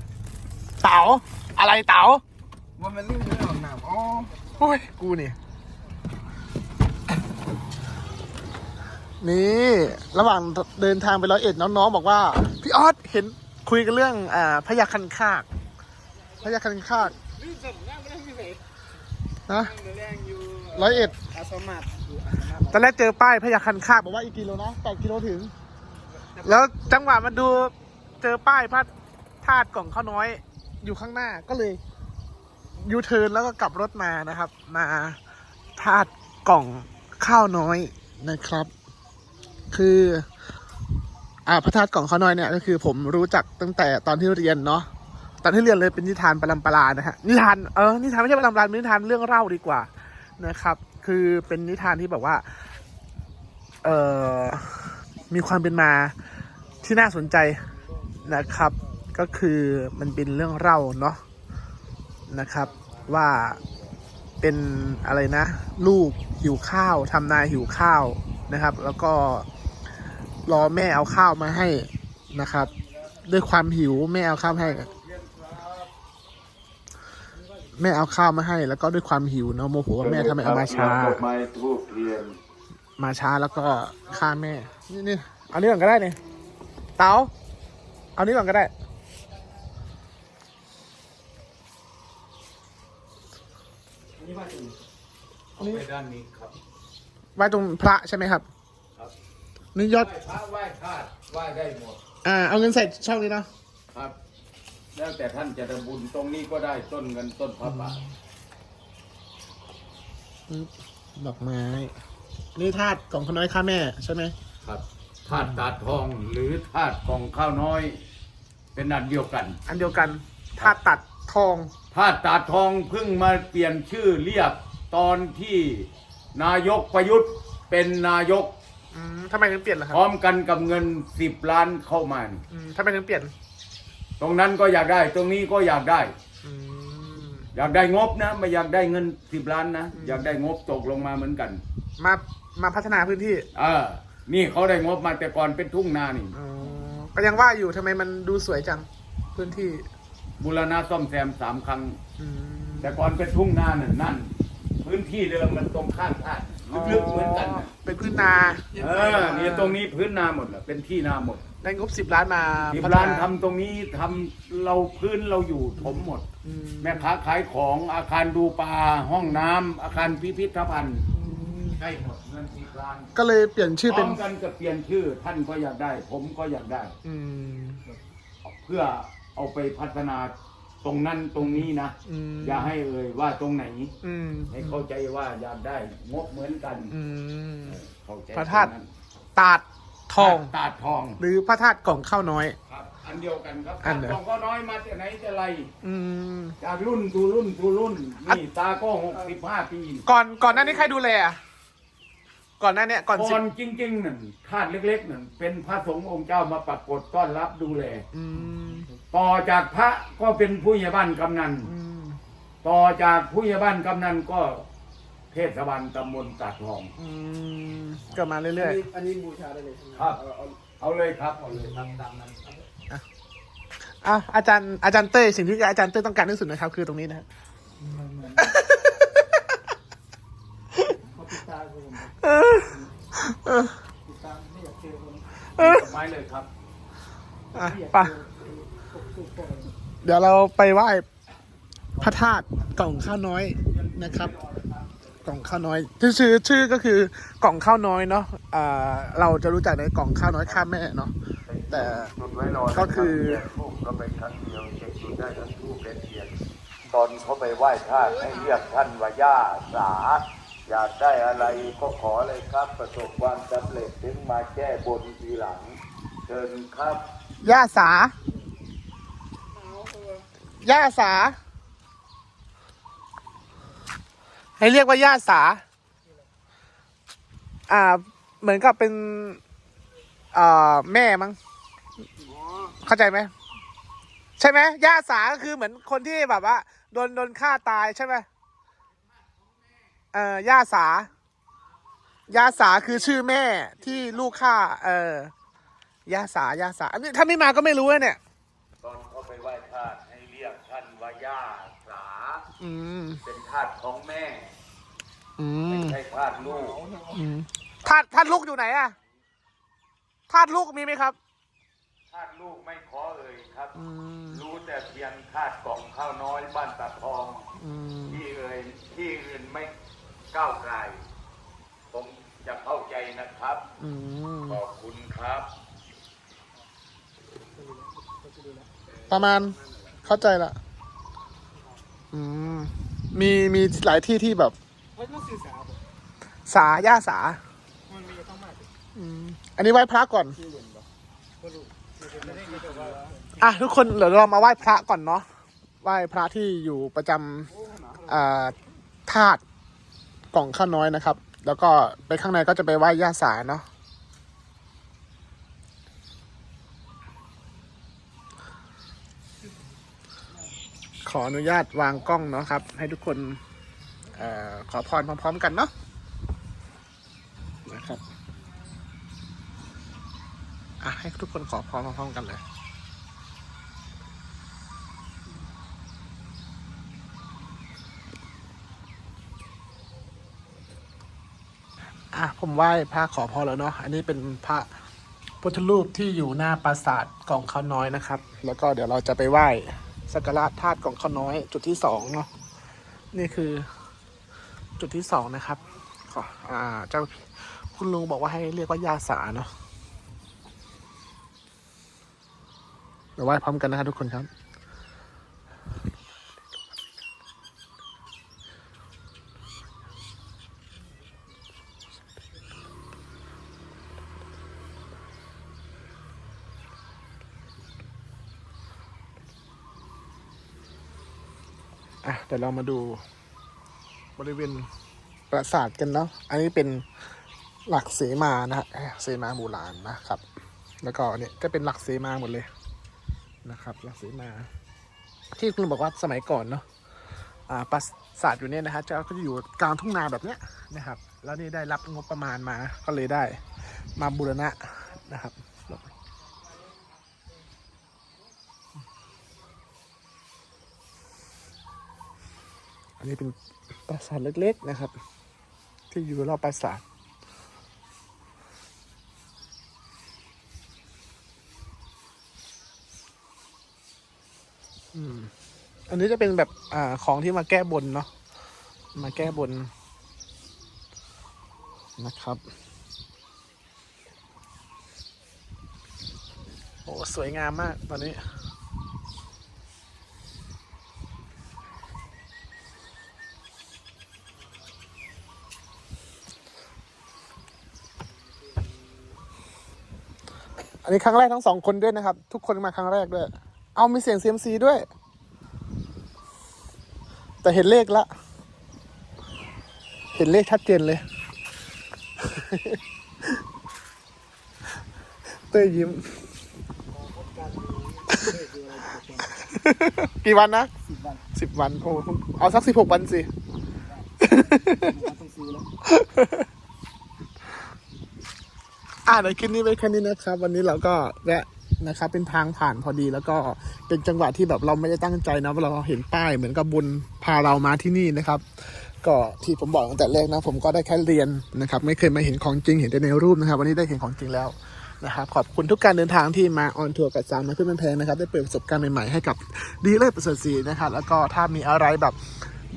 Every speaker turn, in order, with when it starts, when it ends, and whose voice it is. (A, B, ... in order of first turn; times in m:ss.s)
0:00.8-0:02.2 A
0:02.8-0:04.3 B
0:04.6-0:05.4 A
0:09.2-0:15.5 A
0:16.4-0:17.2 A
0:17.2-0:18.6 B
0:19.5-0:19.8 A
0:19.6-0:22.8 B
0:20.7-0:21.2 A
0:22.7-0:25.5 A
0:26.4-0:28.9 A
0:29.4-0:31.8 A
0:32.8-0:35.2 A
0:35.8-0:38.7 A
0:39.7-0:40.3 A
0:41.5-0:44.9 A
0:45.4-0:52.4 A
0:53.8-0:56.2 A
0:56.8-0:57.7 A
0:58.2-1:01.2 A
1:02.3-1:03.6 A
1:04.4-1:09.5 A
1:10.5-1:12.7 A
1:13.2-1:14.9 A
1:14.7-1:15.9 C
1:17.8-1:21.2 A
1:20.0-1:22.4 C
1:23.0-1:26.2 A
1:27.0-1:27.3 A
1:28.2-1:28.7 A
1:34.2-1:34.8 B
1:35.6-1:36.6 C
1:35.6-1:35.8 A
1:37.4-1:38.5 A
1:39.8-1:40.1 A
1:39.9-1:42.0 C
1:42.2-1:43.5 A
1:45.0-1:48.0 C
1:47.6-1:48.1 A
1:50.5-1:52.0 A
1:52.6-1:54.3 A
1:54.6-1:58.0 C
1:55.3-1:55.6 A
1:58.8-1:59.6 C
1:59.7-2:01.7 A
2:01.9-2:08.5 C
2:08.9-2:10.0 A
2:09.9-2:12.4 C
2:12.5-2:13.3 A
2:14.2-2:16.1 C
2:16.4-2:17.5 A
2:17.5-2:21.6 C
2:19.9-2:20.3 A
2:22.0-2:23.5 A
2:23.6-2:26.4 C
2:26.3-2:29.8 A
2:30.4-2:32.0 C
2:32.2-2:33.0 A
2:32.8-2:34.3 C
2:34.8-2:37.7 C
2:36.7-2:39.8 A
2:38.8-2:41.4 C
2:41.6-2:43.3 A
2:42.7-2:46.2 C
2:45.8-2:47.1 A
2:46.8-2:51.1 C
2:51.1-2:51.8 A
2:51.8-2:53.1 C
2:53.2-2:54.2 A
2:53.9-2:57.0 C
2:57.0-2:57.8 A
2:58.4-3:03.9 C
3:01.4-3:02.7 A
3:04.0-3:04.8 A
3:04.5-3:07.0 C
3:06.9-3:07.8 A
3:07.7-3:08.9 C
3:08.3-3:08.7 A
3:09.4-3:10.5 A
3:10.2-3:11.2 C
3:11.2-3:12.6 A
3:12.7-3:15.7 C
3:13.8-3:14.2 A
3:15.8-3:16.6 A
3:16.6-3:20.1 C
3:20.1-3:21.4 A
3:22.6-3:23.4 A
3:23.1-3:28.0 C
3:28.1-3:28.9 A
3:29.1-3:31.7 C
3:31.6-3:32.2 A
3:32.6-3:34.6 C
3:35.3-3:36.9 C
3:37.0-3:38.8 A
3:38.6-3:40.6 B
3:40.0-3:40.2 C
3:40.8-3:42.6 C
3:44.0-3:47.2 A
3:47.8-3:48.5 B
3:48.4-3:49.6 A
3:51.0-3:52.9 B
3:52.2-3:53.7 A
3:54.1-3:55.3 B
3:55.6-3:55.9 A
3:55.6-3:56.5 C
3:57.5-3:58.2 A
3:57.5-3:59.7 B
4:00.0-4:01.1 A
4:02.0-4:02.9 C
4:02.0-4:04.4 A
4:03.7-4:05.5 C
4:05.2-4:11.1 A
4:11.5-4:16.3 C
4:11.7-4:12.1 A
4:12.7-4:13.4 A
4:16.9-4:27.0 C
4:27.4-4:28.2 A
4:29.8-4:30.2 B
4:30.5-4:31.4 A
4:34.6-4:35.6 A
4:37.7-4:39.4 A
4:40.3-4:41.4 A
4:42.8-4:43.3 A
4:44.4-4:48.3 A
4:50.1-4:51.1 A
4:52.3-4:55.3 A
4:56.1-4:58.2 A
4:58.8-5:02.4 C
5:02.6-5:03.2 A
5:03.2-5:04.6 C
5:05.4-5:06.0 A
5:05.7-5:06.9 C
5:07.1-5:09.0 A
5:10.3-5:11.2 A
5:12.1-5:13.7 C
5:13.8-5:14.4 A
5:14.3-5:17.4 C
5:17.6-5:18.2 A
5:18.1-5:19.7 C
5:20.3-5:21.0 C
5:21.9-5:23.6 C
5:23.8-5:24.6 A
5:24.5-5:25.5 C
5:27.6-5:28.7 B
5:29.1-5:30.6 A
5:32.1-5:34.6 A
5:35.0-5:35.8 B
5:36.5-5:37.4 A
5:37.9-5:38.7 B
5:39.0-5:40.4 A
5:40.4-5:40.8 B
5:41.4-5:43.3 B
5:43.4-5:45.3 A
5:45.8-5:48.6 A
5:49.1-5:49.4 A
5:50.3-5:53.7 A
6:01.0-6:03.4 A
6:04.1-6:05.7 A
6:07.7-6:08.0 A
6:10.8-6:12.4 A
6:22.1-6:24.7 A
6:25.4-6:32.3 A
6:33.1-6:33.7 A
6:34.8-6:39.5 A
6:43.2-6:44.3 A
7:02.0-7:03.0 A
7:04.2-7:04.7 A
7:05.3-7:06.8 A
7:07.7-7:10.2 A
7:10.8-7:12.5 A
7:13.4-7:14.5 A
7:15.3-7:16.6 A
7:17.5-7:25.9 A
7:33.0-7:33.4 A
7:33.9-7:34.9 A
7:35.9-7:36.8 A
7:44.9-7:45.3 A
7:45.9-7:48.1 A
7:49.0-7:49.7 A
7:52.0-7:52.4 A
7:56.9-7:58.2 A
8:10.8-8:14.8 A
8:17.4-8:18.1 A
8:20.1-8:21.0 A
8:22.2-8:23.3 A
8:25.5-8:26.1 A
8:27.0-8:29.3 B
8:28.1-8:28.4 A
8:29.3-8:30.7 A
8:30.9-8:31.2 B
8:31.4-8:33.3 A
8:34.2-8:35.0 A
8:34.7-8:35.7 B
8:35.8-8:36.5 A
8:39.1-9:02.2 A